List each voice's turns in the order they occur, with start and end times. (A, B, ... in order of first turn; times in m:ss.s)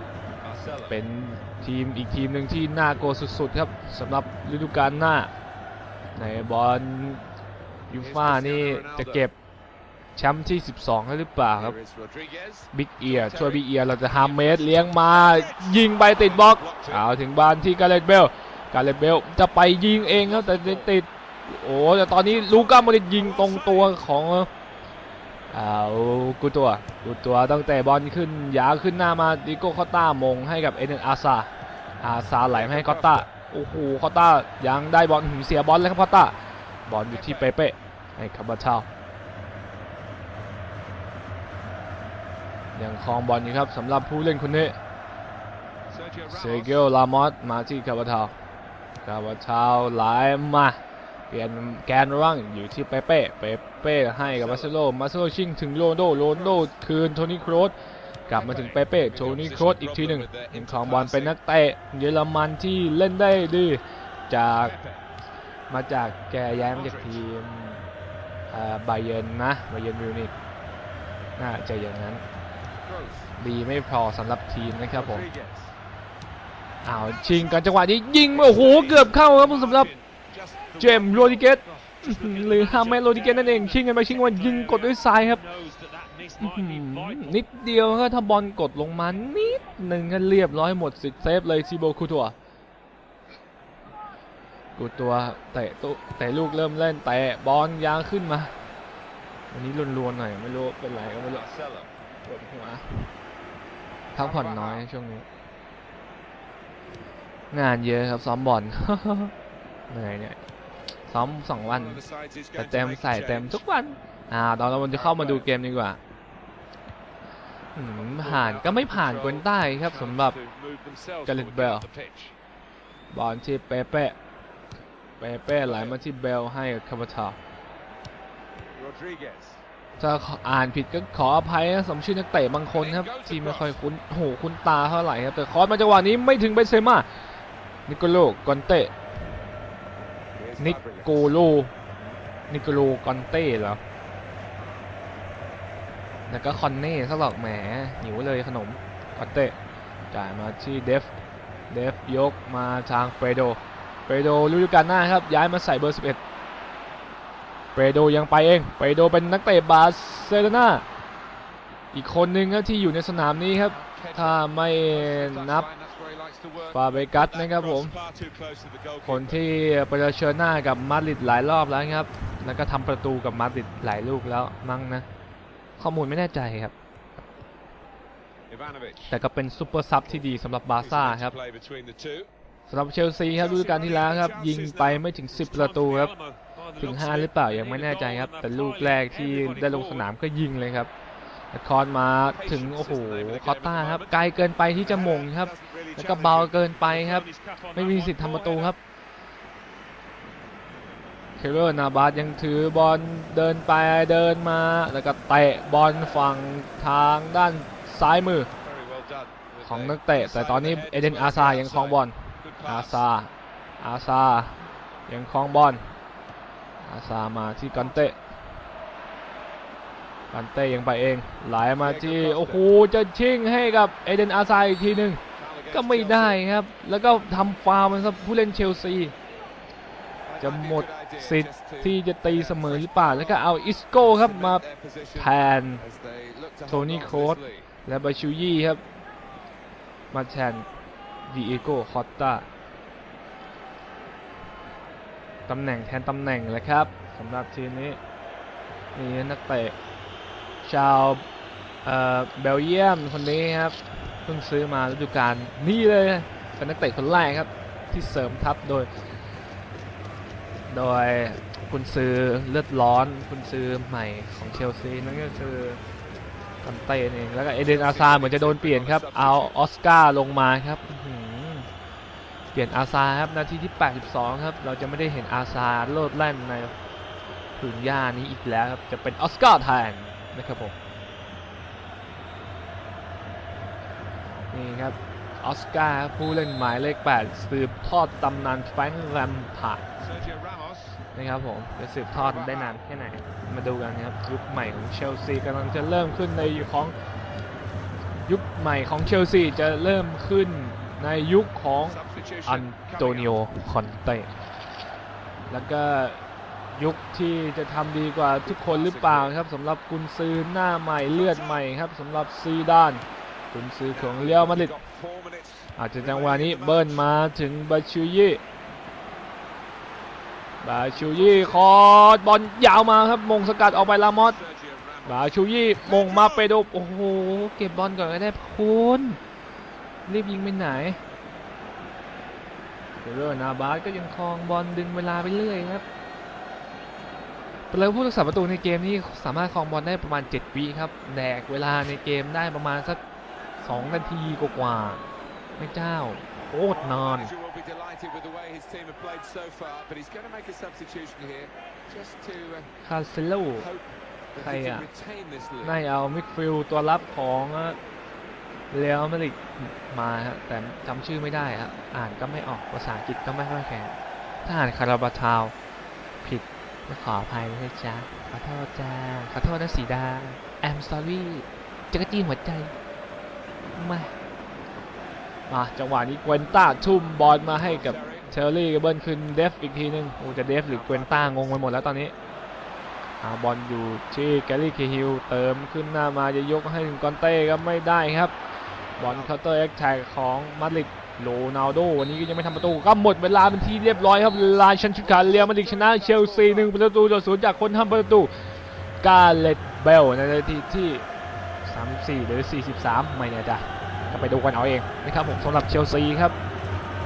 0:00.4-0:01.0 A
0:00.9-0:05.3 B
0:06.2-0:07.2 B
0:07.9-0:09.3 B
0:08.0-0:09.3 A
0:10.2-0:11.8 B
0:11.5-0:17.0 A
0:12.7-0:24.5 B
0:19.9-0:20.9 A
0:22.2-0:24.0 A
0:25.5-0:38.9 B
0:32.5-0:33.3 A
0:37.1-0:37.5 A
0:42.7-0:44.8 B
0:45.9-0:46.9 A
0:46.3-0:48.3 B
0:49.0-0:57.8 B
0:54.2-0:54.7 A
0:56.2-0:56.7 A
0:58.3-1:01.4 A
0:58.3-1:04.7 B
1:04.5-1:05.0 A
1:05.7-1:07.9 B
1:06.6-1:07.2 A
1:08.5-1:10.3 B
1:11.4-1:12.2 B
1:12.8-1:13.3 A
1:13.4-1:15.2 B
1:14.9-1:15.7 A
1:16.8-1:19.9 B
1:17.1-1:17.7 A
1:18.3-1:22.4 A
1:20.8-1:25.4 B
1:22.2-1:27.4 C
1:26.4-1:32.3 B
1:34.8-1:38.5 B
1:39.5-1:41.5 B
1:41.3-1:41.9 A
1:42.2-1:43.1 B
1:44.1-1:45.2 B
1:44.2-1:44.8 A
1:47.5-1:49.3 B
1:49.9-1:50.4 B
1:51.1-1:52.0 B
1:51.6-1:53.6 A
1:52.5-1:56.0 B
1:54.9-1:55.5 A
1:57.7-2:00.4 B
1:58.0-2:02.3 A
2:01.2-2:01.8 B
2:03.1-2:04.2 B
2:05.2-2:07.4 B
2:05.6-2:06.0 A
2:08.7-2:09.6 A
2:10.0-2:17.1 B
2:12.7-2:13.7 A
2:17.9-2:18.9 B
2:20.3-2:21.4 A
2:20.6-2:21.7 B
2:22.5-2:23.8 B
2:26.3-2:29.6 B
2:30.1-2:31.1 B
2:31.7-2:36.2 B
2:37.7-2:40.8 B
2:41.9-2:45.7 B
2:43.6-2:49.5 A
2:46.7-2:48.0 B
2:49.0-2:55.0 B
2:55.8-2:56.7 B
2:58.5-2:59.2 A
2:59.1-3:01.3 B
3:00.1-3:02.3 A
3:02.7-3:06.1 B
3:03.3-3:05.0 A
3:05.3-3:10.0 C
3:06.8-3:10.9 B
3:11.5-3:18.8 B
3:12.2-3:16.6 A
3:16.7-3:18.7 C
3:21.4-3:28.5 B
3:28.6-3:33.0 A
3:29.6-3:35.8 B
3:36.8-3:38.2 B
3:40.3-3:45.2 B
3:41.8-3:42.7 A
3:45.4-3:46.4 A
3:45.7-3:49.1 B
3:50.3-3:57.7 A
3:50.4-3:54.6 B
3:55.2-3:55.8 B
3:56.7-3:58.8 B
4:00.1-4:00.6 B
4:01.2-4:02.5 B
4:05.5-4:08.0 B
4:08.9-4:09.8 B
4:10.6-4:11.2 B
4:11.8-4:18.9 B
4:20.7-4:25.8 B
4:26.6-4:31.7 B
4:27.5-4:29.6 A
4:32.5-4:36.7 B
4:37.6-4:40.7 B
4:44.5-4:49.8 B
4:50.0-4:51.0 A
4:51.1-4:56.9 B
4:52.1-4:52.8 A
4:56.4-4:56.9 A
4:58.2-5:04.3 B
5:01.9-5:03.3 A
5:05.5-5:14.7 B
5:08.4-5:09.4 A
5:11.1-5:11.6 A
5:13.9-5:17.0 A
5:15.8-5:18.4 B
5:20.6-5:24.4 B
5:20.9-5:21.7 A
5:23.7-5:26.5 A
5:25.0-5:29.2 B
5:30.0-5:31.0 B
5:33.0-5:35.8 B
5:37.7-5:43.0 B
5:43.6-5:45.0 B
5:45.6-5:47.3 B
5:46.7-5:52.7 A
5:52.8-5:53.7 B
5:53.6-5:55.8 A
5:54.4-5:54.8 B
5:55.6-5:57.8 B
5:58.7-6:05.5 B
6:06.2-6:12.7 B
6:13.7-6:14.1 B
6:15.5-6:22.1 B
6:17.5-6:18.3 A
6:20.7-6:21.7 A
6:23.2-6:28.3 B
6:29.0-6:38.3 B
6:29.0-6:29.3 A
6:34.0-6:36.8 A
6:39.0-6:41.0 B
6:41.6-6:46.4 B